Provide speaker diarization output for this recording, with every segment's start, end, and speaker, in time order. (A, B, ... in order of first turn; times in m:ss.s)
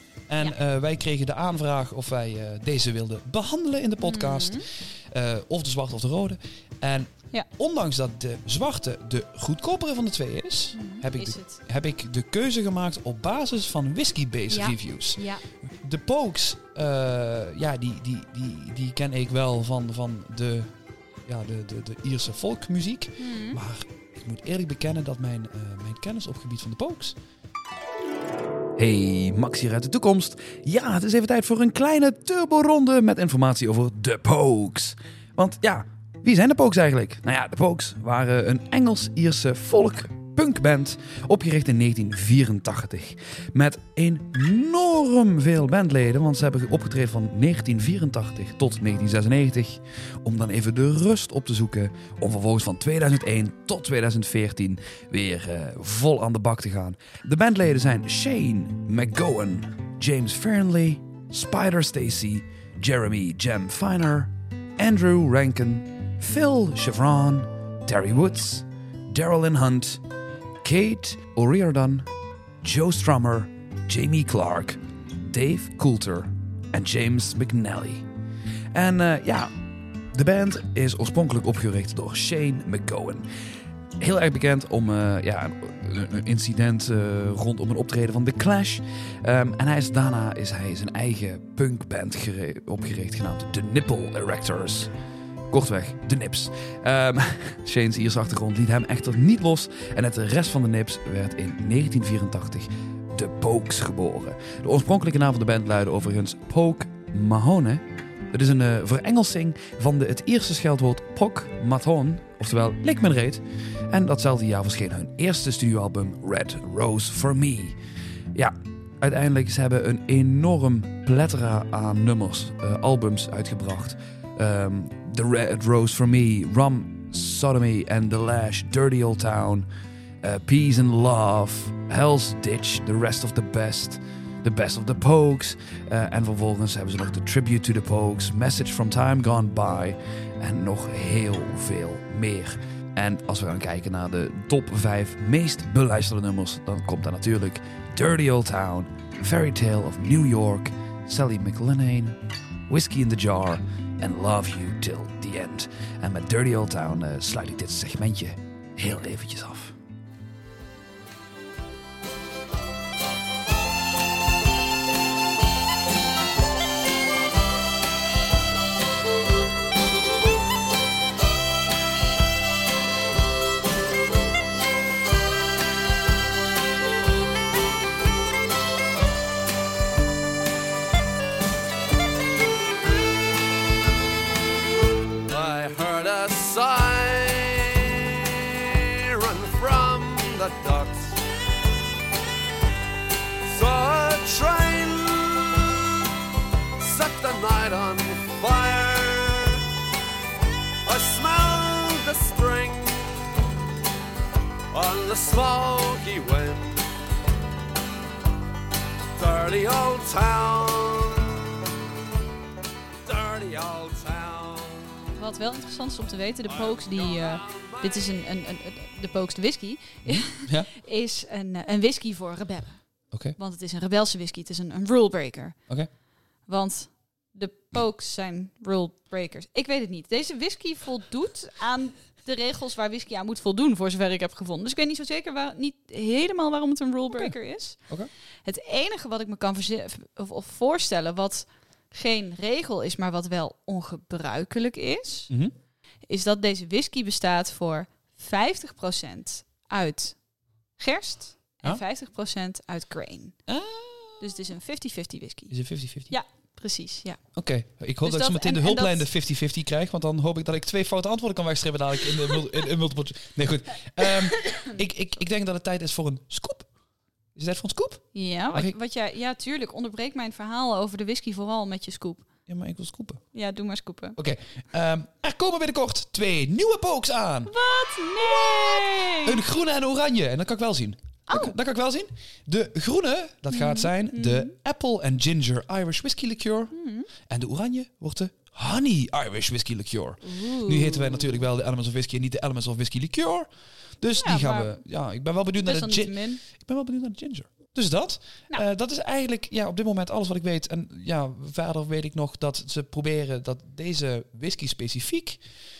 0:00.3-0:20.7 A
0:04.0-0:04.6 B
0:10.7-0:11.6 B
0:14.5-0:15.4 B
0:21.2-0:27.2 A
0:23.2-0:23.6 B
0:28.8-1:10.0 A
1:10.6-1:12.1 A
1:12.6-1:18.1 A
1:18.7-1:19.6 A
1:20.1-1:23.3 A
1:24.0-1:34.9 A
1:35.5-1:57.8 A
1:58.3-2:09.7 A
2:10.2-2:39.8 A
3:05.2-3:11.2 C
3:13.4-3:16.0 C
3:16.8-3:19.6 C
3:20.8-3:23.1 C
3:24.7-3:26.9 C
3:29.1-3:31.4 C
3:33.0-3:35.0 C
3:35.2-3:45.6 B
3:36.5-3:38.0 C
3:40.0-3:40.7 A
3:43.1-3:43.4 A
3:46.4-3:57.9 B
3:58.4-4:05.3 B
4:06.1-4:13.4 B
4:13.5-4:14.3 A
4:14.2-4:17.3 B
4:15.5-4:16.1 A
4:17.3-4:26.7 A
4:18.0-4:19.1 B
4:24.0-4:24.7 B
4:27.3-4:28.7 A
4:28.1-4:32.3 B
4:32.5-4:33.2 A
4:33.3-4:34.2 B
4:34.2-4:37.5 A
4:37.4-4:39.4 B
4:38.2-5:05.4 A
4:41.3-4:41.5 B
4:43.5-4:44.5 B
4:46.7-4:47.1 B
4:50.2-4:51.4 B
4:54.2-4:54.8 B
4:55.6-4:56.4 B